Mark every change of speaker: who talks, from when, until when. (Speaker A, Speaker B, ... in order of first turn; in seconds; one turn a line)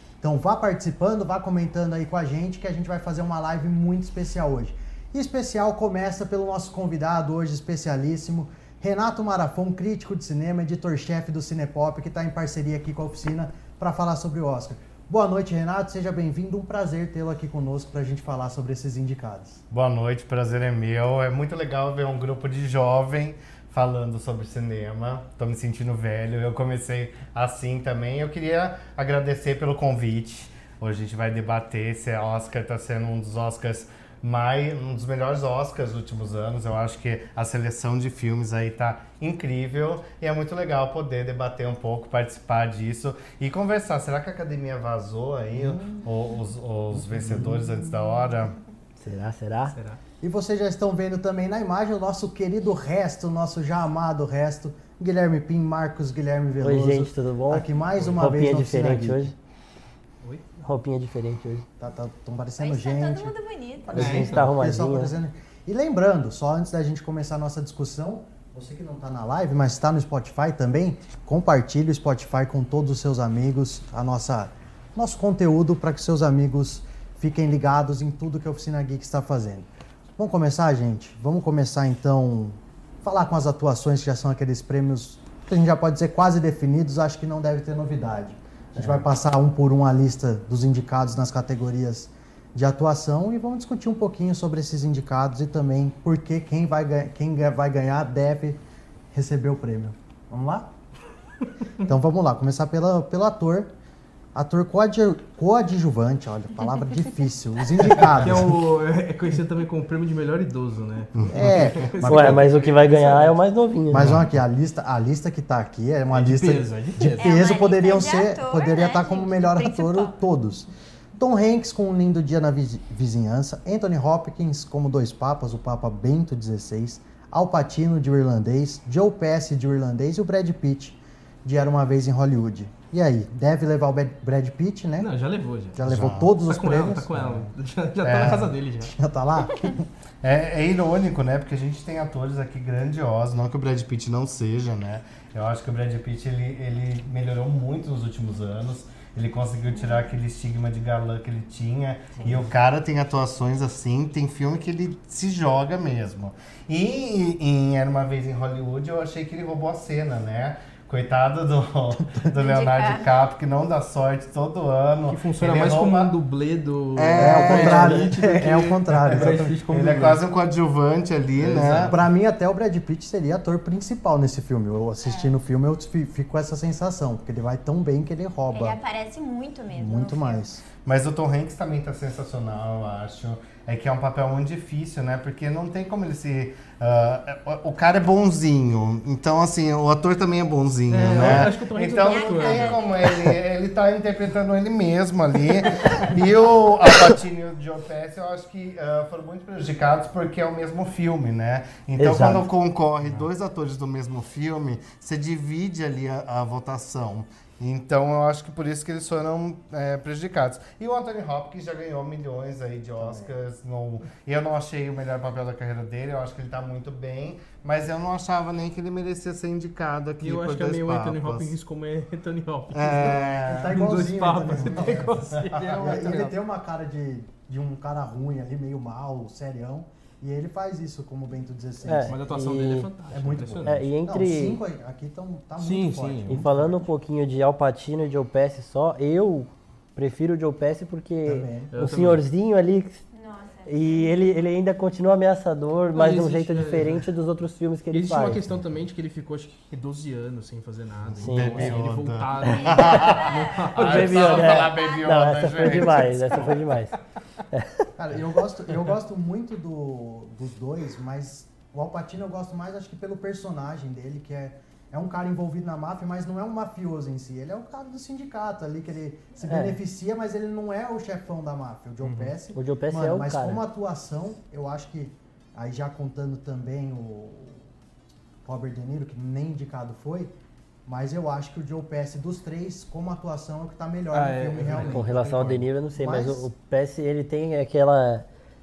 Speaker A: 0.2-19.6
Speaker B: 19.7-48.5
Speaker A: 45.5-46.0
Speaker C: 49.0-49.8
Speaker D: 49.7-50.0
Speaker A: 50.2-59.3
Speaker C: 56.6-59.3
Speaker C: 60.6-61.6
Speaker A: 61.8-100.7
Speaker E: 62.6-64.0
Speaker D: 63.9-64.4
Speaker C: 63.9-65.1
Speaker A: 101.8-103.7
Speaker A: 104.3-108.6
Speaker D: 108.1-113.3
Speaker B: 111.1-111.6
Speaker A: 111.3-112.5
Speaker C: 112.0-114.2
Speaker A: 113.9-135.1
Speaker B: 113.9-114.3
Speaker D: 116.1-117.4
Speaker E: 117.2-120.2
Speaker D: 135.0-138.9
Speaker A: 135.7-137.5
Speaker B: 135.8-136.3
Speaker B: 138.0-138.6
Speaker A: 138.8-139.8
Speaker B: 140.2-166.1
Speaker E: 162.4-163.1
Speaker D: 165.1-170.2
Speaker B: 166.9-168.1
Speaker A: 167.1-169.4
Speaker B: 169.1-171.9
Speaker D: 171.4-171.9
Speaker A: 171.8-178.8
Speaker E: 175.0-175.3
Speaker E: 178.5-180.4
Speaker A: 179.7-180.6
Speaker B: 180.8-221.6
Speaker D: 190.9-192.8
Speaker E: 192.0-193.2
Speaker C: 202.0-202.5
Speaker A: 212.9-213.3
Speaker D: 220.2-226.3
Speaker B: 222.7-223.7
Speaker A: 222.9-232.2
Speaker B: 224.5-226.2
Speaker C: 231.8-232.9
Speaker D: 232.0-233.9
Speaker A: 233.1-236.5
Speaker C: 233.6-234.6
Speaker D: 235.6-236.5
Speaker C: 236.3-243.0
Speaker A: 241.2-241.7
Speaker D: 241.7-242.2
Speaker E: 243.1-244.1
Speaker C: 243.7-248.4
Speaker D: 245.9-247.1
Speaker D: 247.9-254.3
Speaker C: 251.2-251.9
Speaker B: 251.3-256.6
Speaker E: 252.5-255.9
Speaker C: 253.7-256.9
Speaker C: 257.5-257.9
Speaker A: 258.0-277.6
Speaker C: 269.4-269.8
Speaker D: 272.0-272.3
Speaker C: 272.5-273.6
Speaker A: 278.4-280.3
Speaker A: 280.9-285.1
Speaker D: 284.1-285.6
Speaker C: 284.7-288.2
Speaker A: 285.9-286.5